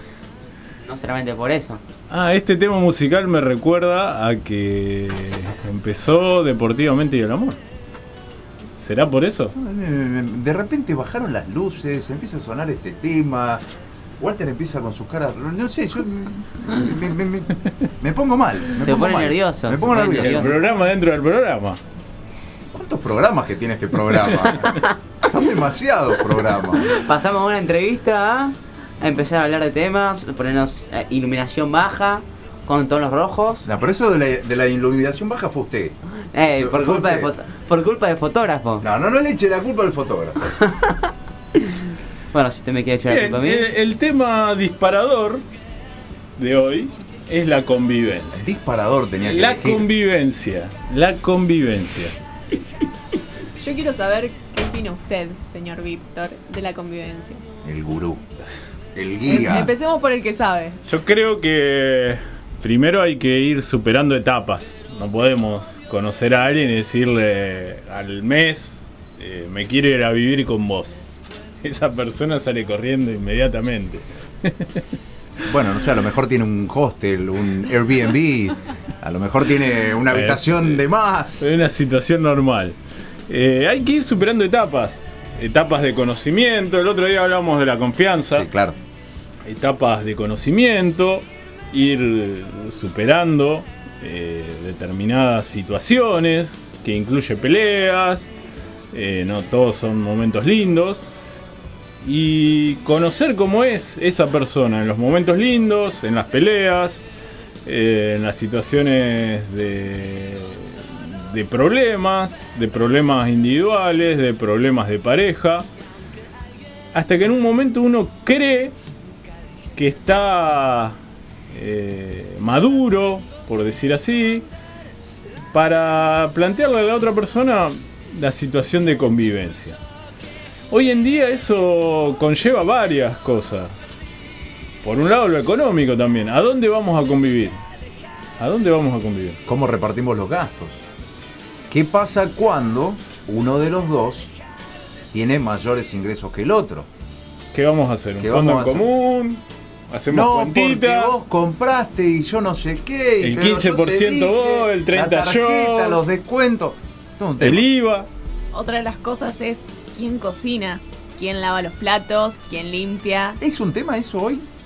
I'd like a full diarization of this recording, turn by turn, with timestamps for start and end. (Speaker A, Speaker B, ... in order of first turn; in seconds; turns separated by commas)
Speaker A: 0.8-1.8, Speaker B: 2.1-7.6, Speaker B: 8.8-9.5, Speaker C: 9.5-13.6, Speaker C: 14.2-20.6, Speaker A: 18.8-20.5, Speaker B: 20.1-21.8, Speaker C: 22.7-26.9, Speaker A: 26.9-33.6, Speaker C: 33.6-37.3, Speaker A: 36.3-38.8, Speaker C: 38.8-40.4, Speaker A: 42.3-43.7, Speaker B: 43.0-45.4, Speaker B: 46.4-48.5, Speaker C: 48.3-49.9, Speaker B: 49.2-52.1, Speaker D: 53.6-57.4, Speaker C: 57.6-58.2, Speaker C: 58.9-59.7, Speaker D: 59.2-60.8, Speaker B: 60.8-71.0, Speaker B: 71.6-74.8, Speaker C: 75.5-81.5, Speaker B: 80.1-80.8, Speaker B: 81.4-82.8, Speaker B: 83.3-88.5, Speaker C: 88.3-88.8, Speaker B: 89.4-98.3, Speaker B: 98.9-101.0, Speaker B: 102.0-107.0, Speaker B: 107.6-115.7, Speaker B: 116.9-118.7, Speaker B: 119.7-121.0, Speaker B: 121.5-124.5, Speaker B: 125.5-129.8, Speaker B: 130.7-133.7, Speaker B: 134.8-137.6, Speaker B: 138.4-139.4, Speaker C: 139.4-140.8, Speaker C: 141.7-144.3, Speaker C: 145.1-146.9, Speaker B: 147.5-151.1, Speaker C: 148.2-148.9, Speaker C: 150.1-157.7, Speaker B: 153.2-156.0, Speaker B: 157.4-158.1, Speaker D: 158.5-163.4, Speaker C: 163.4-164.5